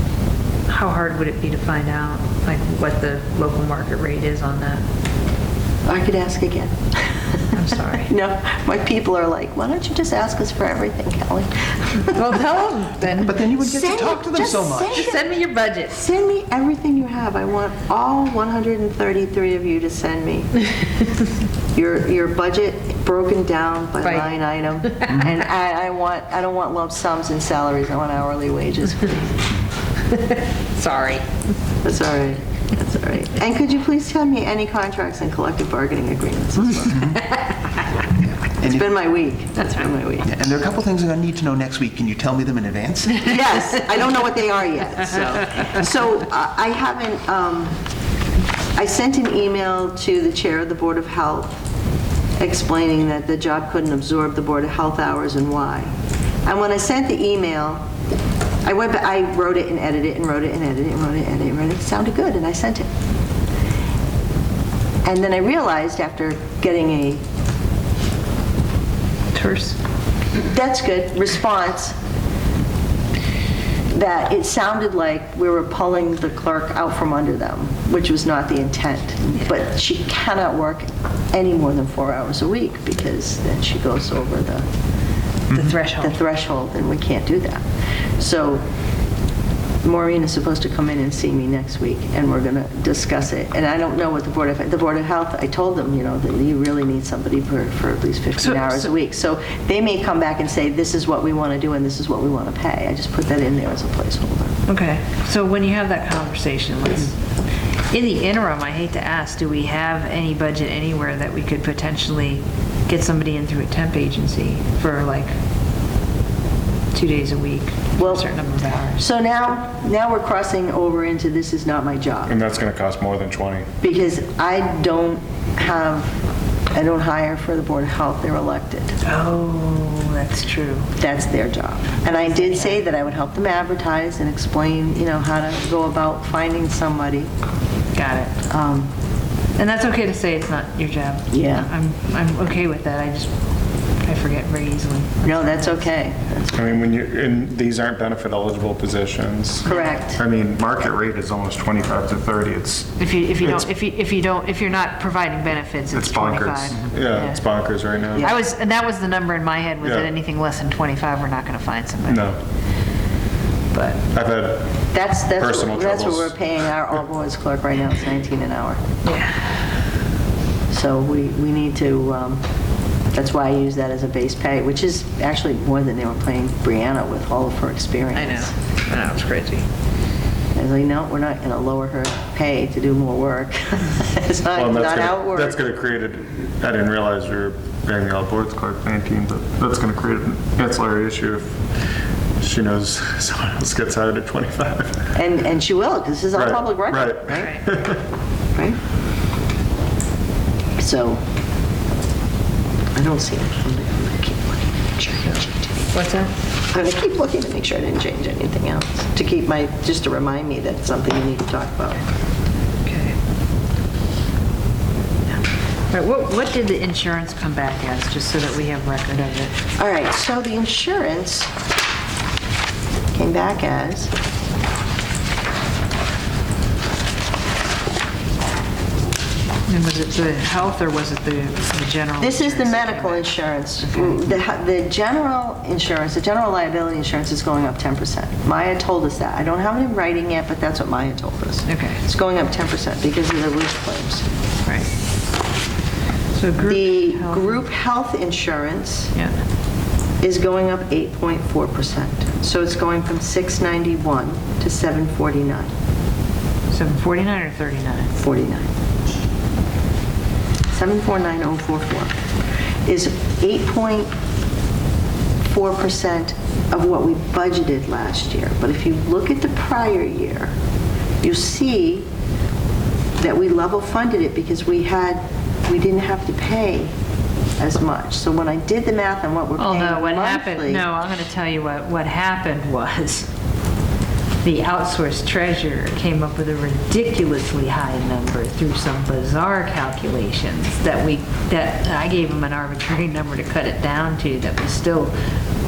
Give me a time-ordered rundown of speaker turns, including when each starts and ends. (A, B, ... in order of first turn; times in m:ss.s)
0:00.7-0:04.8 A
0:05.8-0:12.2 B
0:07.5-0:08.1 A
0:12.1-0:13.4 A
0:13.1-0:15.1 C
0:13.6-0:15.2 B
0:14.9-0:16.0 A
0:15.9-0:20.6 B
0:21.7-0:29.5 B
0:24.0-0:24.3 A
0:24.9-0:25.3 A
0:30.2-0:31.2 A
0:31.8-0:37.2 B
0:38.6-0:39.0 C
0:38.6-0:40.3 B
0:40.2-0:43.4 C
0:43.2-0:47.8 B
0:48.8-0:51.6 B
0:52.4-0:55.9 B
0:56.4-0:57.8 B
0:58.6-1:02.9 B
1:05.0-1:07.2 B
1:09.3-1:09.8 A
1:10.4-1:11.9 B
1:13.9-1:24.6 B
1:25.5-1:26.2 A
1:26.0-1:27.6 B
1:28.2-1:28.6 B
1:29.8-1:44.6 B
1:38.5-1:38.8 A
1:44.7-1:47.2 A
1:47.9-1:55.3 A
1:56.9-1:59.0 A
1:58.0-1:58.2 B
1:59.0-2:02.3 B
2:02.2-2:03.7 D
2:03.8-2:06.2 B
2:06.7-2:08.9 B
2:09.0-2:10.9 A
2:11.0-2:17.3 B
2:12.1-2:12.8 A
2:17.9-2:18.9 A
2:19.6-2:23.3 A
2:21.3-2:21.7 B
2:24.0-2:25.8 A
2:25.2-2:26.7 B
2:26.5-2:33.6 D
2:29.6-2:29.9 A
2:29.6-2:30.2 B
2:33.0-2:37.4 A
2:35.9-2:38.3 D
2:38.2-2:42.3 A
2:39.8-2:40.1 D
2:42.0-2:42.4 D
2:43.7-2:44.0 A
2:44.1-2:44.8 D
2:44.9-2:48.8 B
2:45.3-2:46.5 D
2:49.0-2:49.6 A
2:50.7-2:52.4 B
2:53.1-2:58.5 B
2:58.1-2:59.6 A
3:00.5-3:05.6 B
3:04.5-3:11.6 D
3:12.4-3:15.1 D
3:15.1-3:17.5 B
3:16.3-3:18.0 D
3:17.3-3:17.6 A
3:20.8-3:21.2 B
3:22.9-3:25.9 B
3:25.9-3:26.3 A
3:26.7-3:32.0 B
3:32.8-3:33.1 A
3:35.9-3:39.6 A
3:39.8-3:41.5 B
3:43.1-3:44.1 B
3:49.7-3:53.3 A
3:52.2-4:04.2 B
4:01.7-4:02.0 A
4:06.3-4:07.6 A
4:06.6-4:09.1 B
4:10.2-4:15.7 B
4:16.7-4:18.1 A
4:18.2-4:18.7 B
4:20.7-4:22.2 B
4:22.8-4:24.1 B
4:25.4-4:30.5 B
4:31.2-4:32.1 B
4:33.2-4:36.9 B
4:37.6-4:40.8 B
4:39.6-4:43.3 A
4:44.4-4:55.1 A